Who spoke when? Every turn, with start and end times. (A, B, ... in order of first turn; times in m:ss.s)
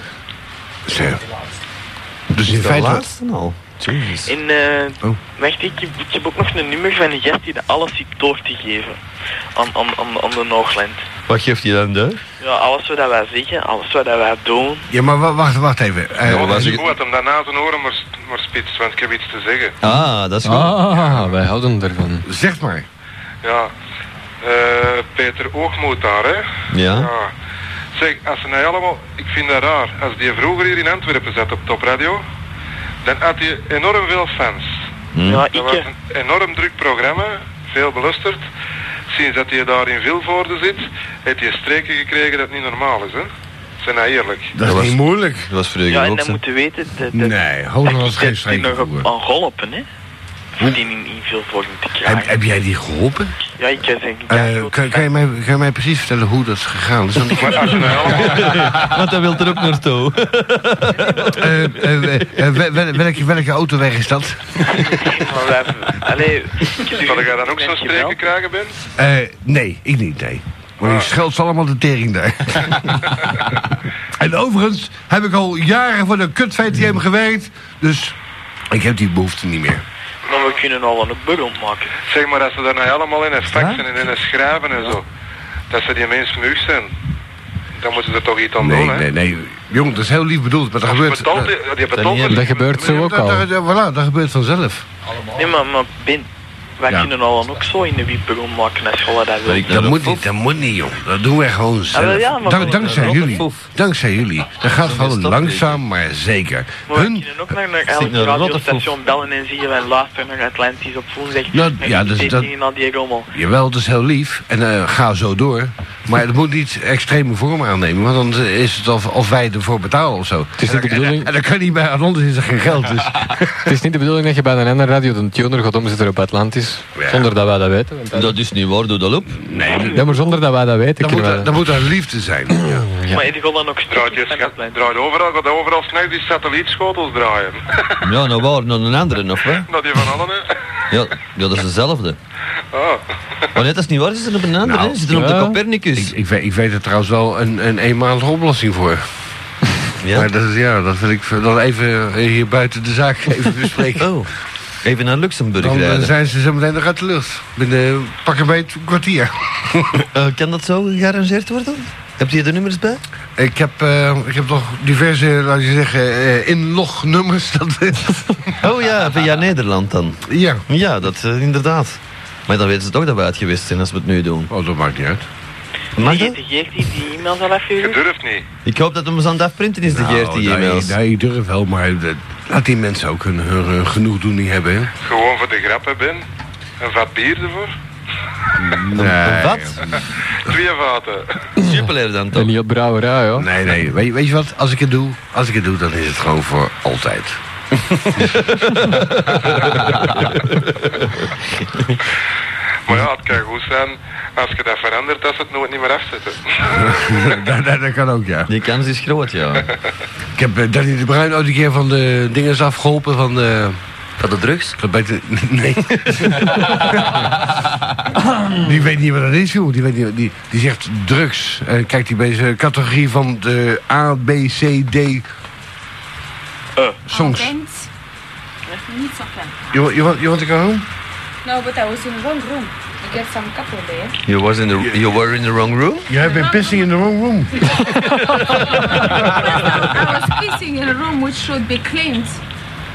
0:00.8-0:01.2 A
0:02.3-0:03.0 A
0:02.4-0:04.3 B
0:04.2-0:09.0 C
0:09.5-0:11.1 C
0:11.3-0:12.2 B
0:12.4-0:14.9 C
0:14.9-0:16.8 A
0:16.2-0:16.9 B
0:16.3-0:19.7 D
0:19.8-0:20.8 B
0:20.4-0:22.2 E
0:22.2-0:22.9 A
0:23.4-0:23.7 D
0:24.4-0:27.3 D
0:26.7-0:27.1 B
0:28.0-0:32.2 D
0:33.0-0:34.7 D
0:35.1-0:35.4 B
0:35.2-0:35.9 C
0:35.5-0:38.4 D
0:39.1-0:43.3 D
0:43.8-0:44.5 D
0:44.5-0:45.5 A
0:44.6-0:46.4 B
0:45.9-0:49.8 C
0:47.1-0:49.1 A
0:50.6-0:52.3 C
0:52.0-0:53.3 A
0:53.6-0:55.0 C
0:54.3-0:58.4 A
0:57.3-0:58.8 D
0:57.8-1:02.2 B
1:01.3-1:05.0 A
1:04.7-1:08.3 C
1:06.9-1:08.8 D
1:08.9-1:13.3 A
1:10.8-1:11.1 D
1:14.2-1:18.2 A
1:18.7-1:19.8 A
1:20.2-1:21.9 C
1:20.3-1:20.6 D
1:22.0-1:25.0 D
1:23.5-1:23.8 B
1:25.7-1:26.9 D
1:27.8-1:29.1 D
1:28.6-1:31.5 A
1:30.9-1:32.8 D
1:31.9-1:32.4 B
1:32.3-1:33.4 E
1:32.7-1:34.8 A
1:35.3-1:39.7 C
1:39.4-1:40.3 B
1:39.7-1:47.3 A
1:41.9-1:43.4 C
1:42.0-1:43.7 B
1:44.8-1:45.8 B
1:46.9-1:53.3 C
1:47.9-1:48.8 B
1:51.5-1:52.5 A
1:53.3-2:03.7 A
2:00.6-2:01.3 E
2:03.6-2:08.3 E
2:07.0-2:07.3 A
2:08.1-2:09.4 B
2:09.4-2:10.0 A
2:09.9-2:11.5 E
2:11.0-2:12.8 A
2:12.7-2:13.2 E
2:13.1-2:14.9 C
2:13.9-2:18.0 D
2:18.0-2:19.7 B
2:19.6-2:20.5 D
2:20.9-2:22.2 B
2:22.7-2:23.0 D
2:23.5-2:26.1 B
2:24.6-2:25.0 A
2:25.1-2:25.6 E
2:25.9-2:29.0 A
2:30.0-2:30.3 B
2:30.1-2:34.1 A
2:34.0-2:34.3 B
2:34.8-2:36.1 B
2:35.6-2:40.0 A
2:40.0-2:43.0 B
2:43.4-2:48.6 A
2:48.6-2:54.5 B
2:50.3-2:50.6 A
2:54.5-2:55.2 A
2:56.0-2:56.4 B
2:56.0-2:58.0 C
2:57.8-2:58.4 D
2:58.6-3:00.9 B
2:59.9-3:04.9 A
3:05.0-3:06.2 D
3:06.8-3:07.7 D
3:08.6-3:10.0 A
3:08.9-3:09.9 B
3:10.4-3:11.4 D
3:11.6-3:12.5 B
3:12.3-3:13.5 E
3:13.4-3:17.4 A
3:17.9-3:18.3 A
3:18.2-3:20.4 B
3:21.6-3:21.9 B
3:22.9-3:26.9 D
3:26.7-3:28.5 A
3:28.5-3:29.7 B
3:30.4-3:33.8 A
3:34.2-3:34.8 B
3:34.8-3:37.2 A
3:38.4-3:45.2 A
3:47.1-3:47.5 A
3:47.1-3:47.9 F
3:48.8-3:49.8 F
3:49.7-3:50.8 A
3:51.4-3:54.2 F
3:54.2-3:56.1 B
3:56.1-3:57.9 A
3:56.1-3:56.9 F
3:57.8-4:02.4 F
3:58.3-3:59.3 B
3:59.3-3:59.8 A